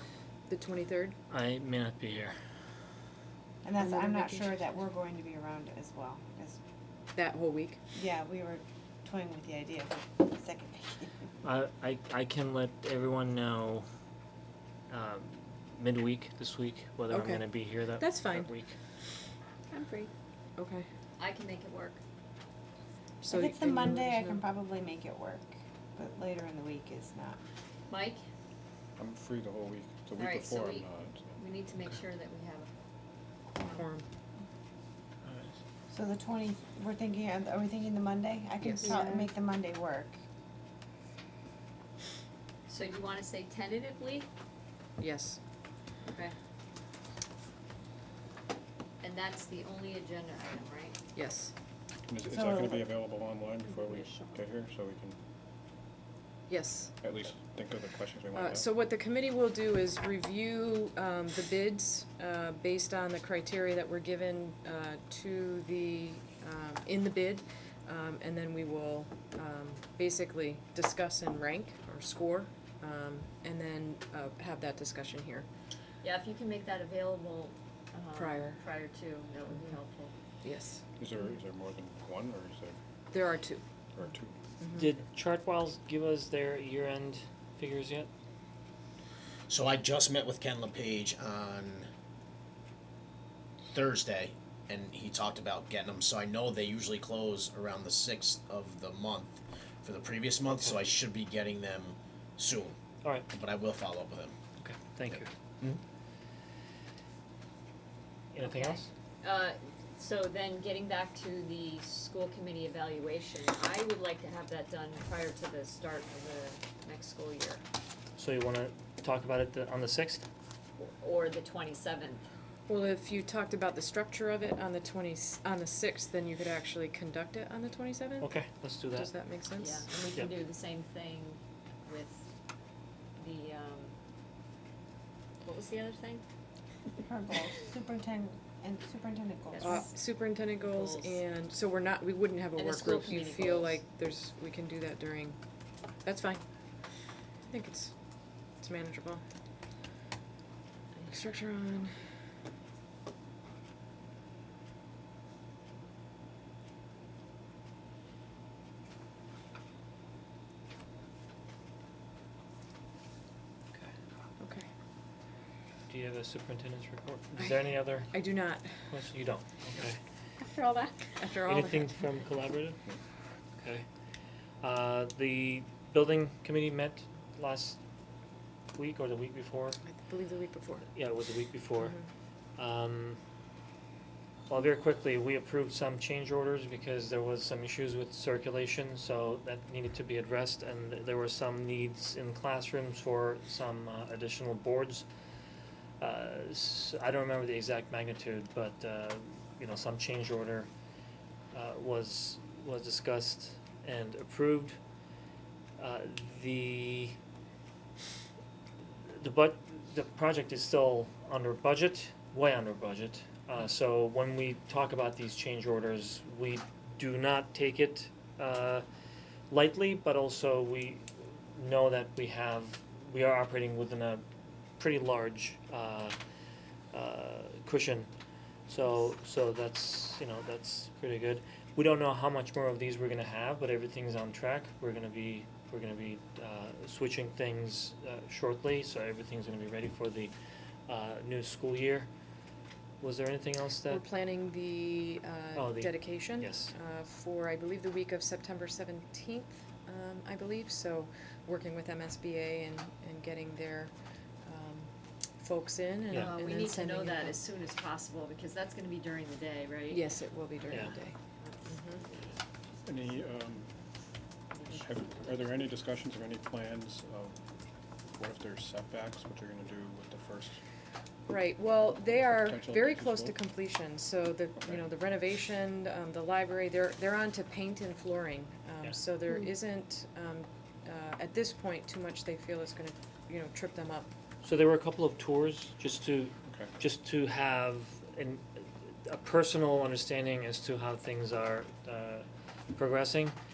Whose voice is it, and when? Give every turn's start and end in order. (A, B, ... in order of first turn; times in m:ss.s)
0:00.5-0:01.2 A
0:01.3-0:02.4 B
0:03.6-0:06.6 C
0:03.8-0:04.6 A
0:07.2-0:07.8 A
0:07.9-0:11.2 C
0:11.4-0:13.9 B
0:14.9-0:18.8 B
0:17.1-0:18.5 A
0:19.7-0:20.1 D
0:20.6-0:20.9 A
0:21.2-0:22.0 D
0:23.2-0:24.4 A
0:23.3-0:27.4 C
0:27.9-0:28.2 D
0:29.0-0:31.4 E
0:30.2-0:32.7 D
0:33.6-0:33.9 D
0:33.6-0:34.0 A
0:35.2-0:35.6 B
0:35.9-0:40.2 C
0:38.6-0:39.0 A
0:42.7-0:44.3 D
0:45.0-0:45.4 A
0:46.0-0:46.4 D
0:49.0-0:51.0 D
0:51.2-0:51.5 A
0:52.1-0:55.2 E
0:52.3-0:52.8 C
0:53.7-0:54.4 D
0:56.5-0:56.9 A
0:57.0-0:58.7 E
0:57.2-0:57.6 F
0:58.3-1:15.5 A
1:16.0-1:20.1 D
1:18.2-1:18.6 A
1:20.4-1:20.8 A
1:21.0-1:22.8 E
1:23.1-1:23.6 A
1:24.0-1:24.4 E
1:24.6-1:25.0 A
1:24.7-1:28.1 B
1:29.5-1:31.9 F
1:33.7-1:42.8 F
1:40.5-1:40.8 B
1:43.0-1:43.3 B
1:43.3-1:44.4 F
1:44.6-1:45.3 B
1:48.3-1:48.9 B
1:48.4-1:57.6 D
1:58.2-2:00.3 B
2:00.8-2:02.2 D
2:02.7-2:08.3 A
2:08.2-2:09.1 B
2:08.9-2:09.9 A
2:09.6-2:12.3 D
2:13.2-2:13.9 D
2:15.4-2:16.2 D
2:17.0-2:19.9 C
2:19.5-2:19.9 D
2:19.6-2:25.4 A
2:20.6-2:21.2 D
2:22.6-2:23.8 D
2:26.0-2:26.4 A
2:27.4-2:27.9 A
2:28.6-2:29.2 A
2:31.1-2:31.9 A
2:44.4-2:44.7 A
2:45.9-2:48.1 B
2:48.1-2:48.9 A
2:48.9-2:50.0 B
2:50.5-2:51.1 C
2:51.2-2:52.0 A
2:51.5-2:52.8 B
2:53.6-2:53.8 B
2:54.6-2:57.8 B
2:58.8-2:59.8 B
2:59.8-3:00.9 A
3:00.9-3:02.0 B
3:02.6-3:03.2 B
3:04.5-3:15.1 B
3:16.0-3:20.7 B
3:21.5-3:24.8 B
3:25.8-3:27.2 B
3:29.1-3:38.9 B
3:39.5-3:44.2 B
3:44.8-3:46.2 B
3:46.9-3:48.1 B
3:48.7-4:00.3 B
4:00.9-4:02.1 B
4:03.0-4:04.0 B
4:03.9-4:17.4 A
4:05.6-4:06.7 B
4:16.1-4:20.0 D
4:19.9-4:21.2 A
4:21.4-4:21.8 D
4:21.7-4:22.0 A
4:22.8-4:23.7 E
4:24.5-4:25.3 D
4:24.8-4:27.4 E
4:28.2-4:30.6 E
4:31.3-4:44.1 A
4:32.5-4:33.3 E
4:32.8-4:33.3 F
4:44.4-4:53.4 B